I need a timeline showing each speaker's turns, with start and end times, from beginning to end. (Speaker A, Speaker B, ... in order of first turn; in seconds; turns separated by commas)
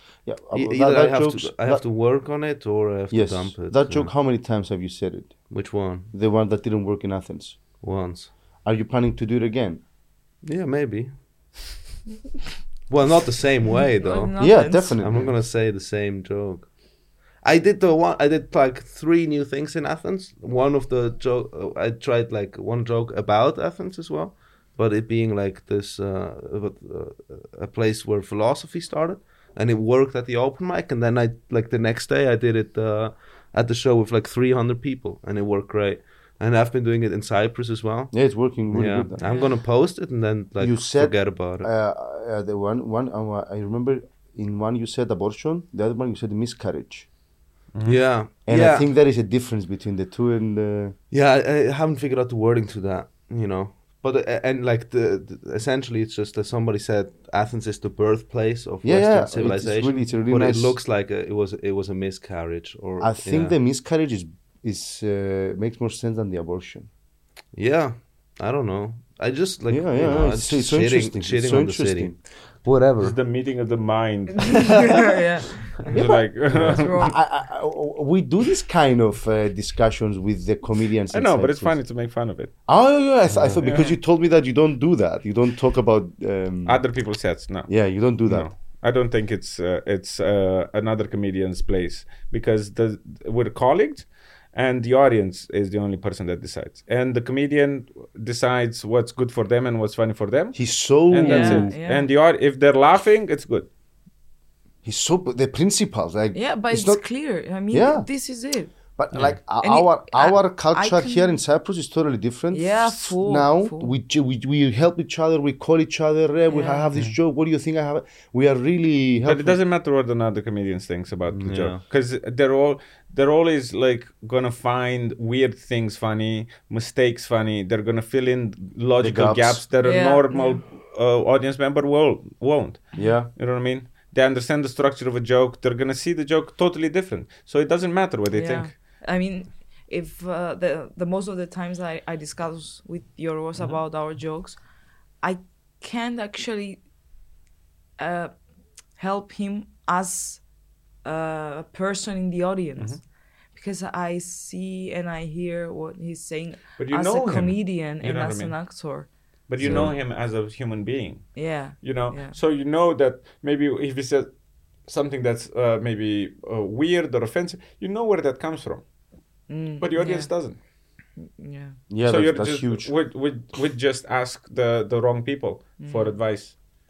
Speaker A: 0.2-1.9, Speaker B: 0.5-4.1, Speaker A: 3.1-5.5, Speaker B: 5.5-6.1, Speaker A: 6.1-7.6, Speaker B: 7.8-8.3, Speaker A: 8.6-9.8, Speaker B: 10.4-11.5, Speaker B: 12.9-14.3, Speaker C: 13.9-15.0, Speaker A: 14.4-15.3, Speaker B: 15.0-16.8, Speaker B: 17.4-41.7, Speaker A: 38.1-39.2, Speaker C: 39.2-39.5, Speaker A: 40.6-47.1, Speaker D: 47.7-48.0, Speaker B: 47.8-48.9, Speaker A: 48.4-50.9, Speaker B: 51.1-63.5, Speaker A: 58.8-60.8, Speaker A: 63.0-66.9, Speaker B: 67.5-73.2, Speaker A: 69.7-72.2, Speaker D: 73.0-75.1, Speaker C: 74.5-76.0, Speaker D: 75.8-77.1, Speaker A: 75.9-81.8, Speaker C: 76.6-77.2, Speaker D: 81.1-82.5, Speaker A: 82.7-86.8, Speaker B: 83.3-83.6, Speaker D: 83.6-83.9, Speaker D: 86.7-103.7, Speaker A: 87.7-88.5, Speaker A: 100.5-101.7, Speaker C: 101.2-102.1, Speaker A: 104.8-107.0, Speaker C: 106.3-108.7, Speaker A: 107.7-108.1, Speaker A: 109.0-119.6, Speaker D: 109.1-109.4, Speaker C: 109.6-111.4, Speaker C: 112.5-113.9, Speaker C: 116.5-116.9, Speaker D: 119.2-138.7, Speaker B: 121.3-121.8, Speaker A: 129.0-129.6, Speaker C: 129.8-130.6, Speaker A: 132.9-133.3, Speaker C: 138.3-144.6, Speaker C: 145.2-146.8, Speaker C: 148.0-148.3, Speaker C: 148.9-150.4, Speaker C: 151.0-153.0, Speaker C: 153.5-159.9, Speaker D: 156.8-158.6, Speaker D: 159.5-168.9, Speaker A: 159.6-159.9, Speaker C: 161.3-162.4, Speaker C: 169.5-170.3, Speaker D: 169.8-170.6, Speaker C: 171.2-171.8, Speaker A: 171.9-172.9, Speaker D: 172.0-176.5, Speaker C: 175.8-176.5